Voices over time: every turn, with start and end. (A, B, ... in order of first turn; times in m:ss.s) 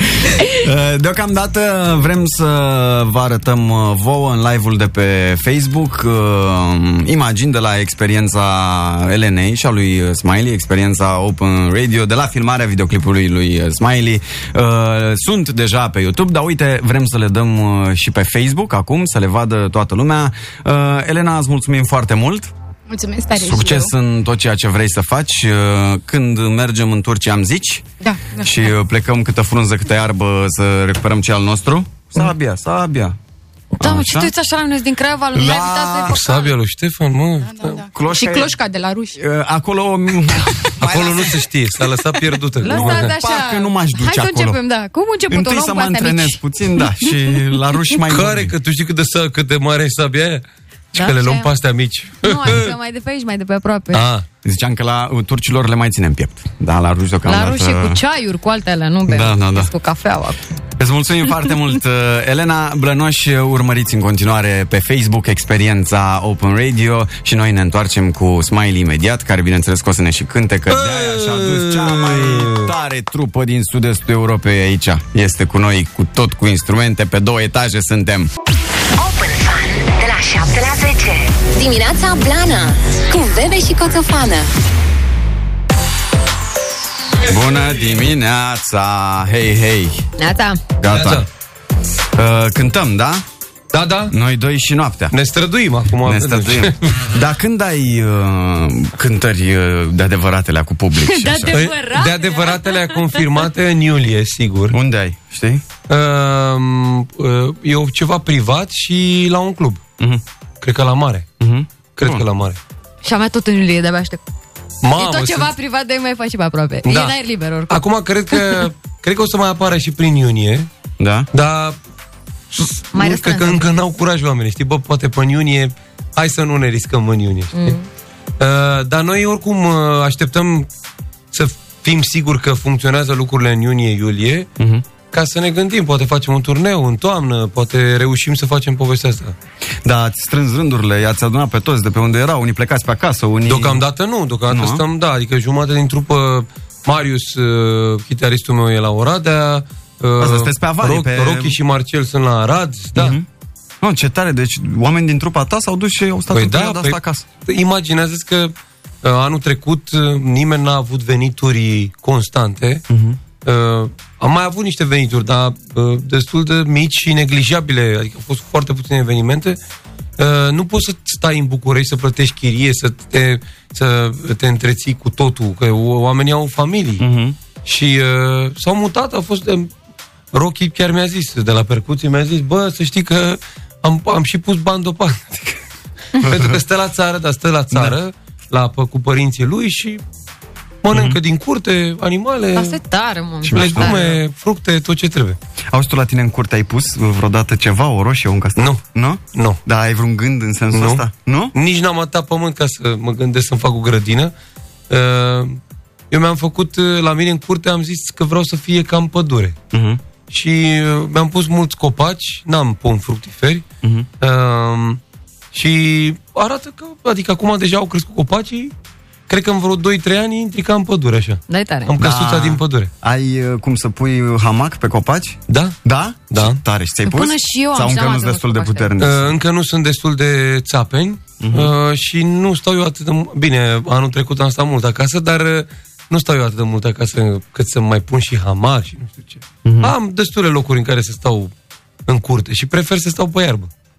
0:00.4-0:22.5 A
0:22.9-0:23.9 B
0:23.3-0:27.8 A
0:28.0-0:28.6 B
0:28.4-0:33.2 A
0:33.8-0:36.4 C
0:33.8-0:34.3 A
0:35.3-0:36.2 A
0:36.1-0:37.8 D
0:37.4-0:39.2 B
0:37.9-0:38.5 A
0:39.2-0:41.4 A
0:40.4-0:40.7 B
0:40.8-0:43.1 D
0:42.6-0:46.8 C
0:42.6-0:44.6 A
0:45.3-0:48.5 A
0:48.0-0:52.7 D
0:50.9-0:51.5 C
0:52.2-0:54.1 C
0:53.9-0:54.2 D
0:54.4-0:58.0 A
0:57.2-1:00.4 C
0:59.1-0:59.7 A
1:00.8-1:18.3 A
1:10.7-1:12.7 D
1:19.0-1:24.5 E
1:27.2-1:30.0 A
1:30.2-1:30.6 C
1:30.8-1:31.2 A
1:30.9-1:31.3 D
1:32.2-1:33.2 A
1:33.7-1:34.1 D
1:34.1-1:35.1 A
1:35.1-1:37.1 D
1:36.0-1:41.7 A
1:41.0-1:43.4 C
1:41.5-1:44.8 D
1:44.7-1:45.6 A
1:45.9-1:49.8 D
1:50.6-1:51.3 D
1:51.4-1:52.2 A
1:51.9-1:52.6 D
1:53.0-1:54.2 C
1:54.8-1:55.5 D
1:54.9-1:57.8 C
1:56.8-1:57.1 D
1:57.7-2:00.7 D
2:01.0-2:01.3 A
2:01.3-2:01.8 D
2:02.5-2:07.8 D
2:02.9-2:03.7 C
2:07.5-2:07.8 C
2:08.4-2:10.7 D
2:11.3-2:14.5 D
2:14.6-2:14.8 A
2:15.0-2:19.4 D
2:19.8-2:23.8 A
2:23.4-2:33.2 D
2:24.5-2:24.8 A
2:30.2-2:31.6 A
2:32.9-2:33.2 A
2:33.8-2:37.3 A
2:36.3-2:42.8 D
2:42.9-2:43.2 A
2:43.4-2:49.6 D
2:50.2-2:57.0 D
2:57.0-2:57.4 A
2:57.6-2:59.7 D
3:00.3-3:05.6 D
3:06.2-3:10.0 D
3:06.2-3:06.6 A
3:07.7-3:08.0 A
3:10.8-3:12.8 D
3:10.9-3:11.2 A
3:12.5-3:14.2 C
3:13.4-3:14.2 A
3:13.5-3:15.4 D
3:15.7-3:21.5 A
3:19.3-3:19.6 D
3:20.7-3:24.3 D
3:24.9-3:25.6 D
3:26.1-3:29.6 D
3:29.7-3:30.0 A
3:30.2-3:33.6 D
3:33.8-3:34.1 A
3:34.2-3:35.0 D
3:35.5-3:38.7 D
3:39.3-3:42.9 D
3:41.5-3:41.9 C
3:42.0-3:49.3 A
3:45.5-3:45.8 D
3:46.3-3:46.6 D
3:47.0-3:48.9 C
3:49.0-4:01.5 D
3:51.4-3:51.7 A
3:59.6-3:59.9 A
4:02.1-4:03.7 D